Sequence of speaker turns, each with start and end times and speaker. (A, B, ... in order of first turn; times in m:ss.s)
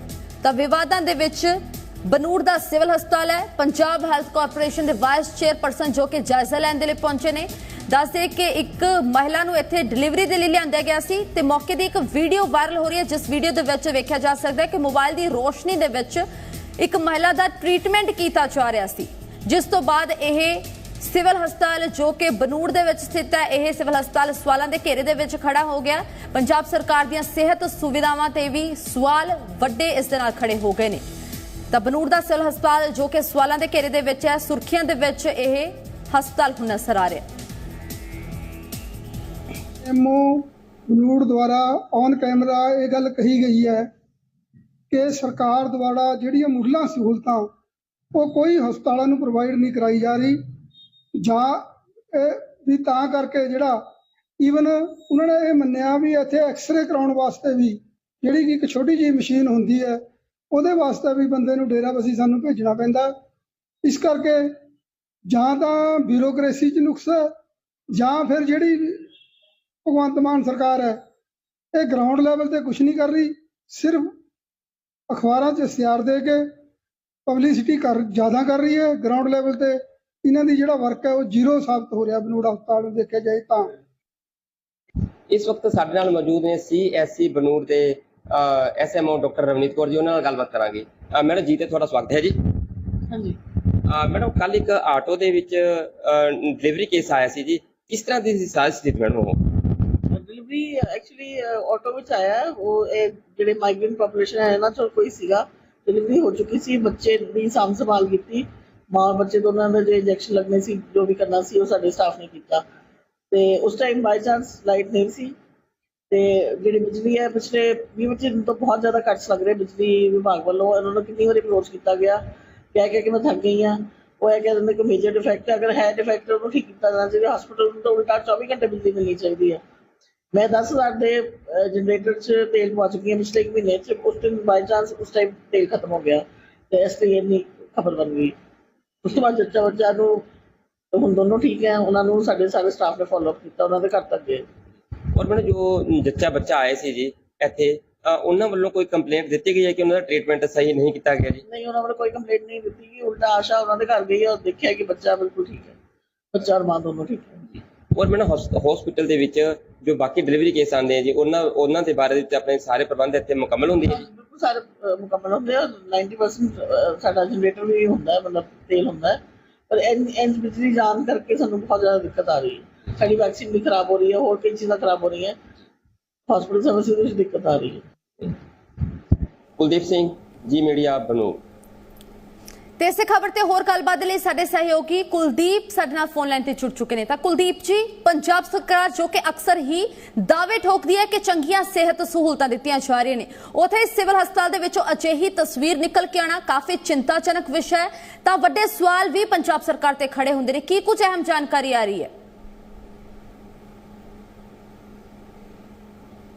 0:00.4-0:16.2 A
0:16.8-0:31.0 A
0:31.7-0:37.2 A
0:39.8-0:43.9 B
0:44.9-0:47.5 B
0:48.1-0:50.4 B
0:51.2-0:51.6 B
0:52.1-0:53.8 B
0:54.4-1:03.1 B
1:03.8-1:04.5 B
1:05.3-1:07.3 B
1:07.9-1:09.0 B
1:09.8-1:11.0 B
1:11.7-1:14.1 B
1:15.1-1:16.4 B
1:17.2-1:23.7 B
1:25.3-1:32.4 C
1:33.1-1:33.4 D
1:33.8-1:39.6 C
1:40.1-1:52.6 D
1:53.3-1:55.3 D
1:56.1-2:02.2 D
2:02.7-2:09.6 D
2:10.3-2:18.3 D
2:19.0-2:20.2 D
2:20.9-2:24.4 D
2:25.1-2:31.4 C
2:31.5-2:35.8 D
2:36.3-2:37.6 D
2:37.9-2:44.0 C
2:43.8-2:55.4 D
2:56.3-2:57.8 D
2:59.6-3:01.4 C
3:02.8-3:22.1 A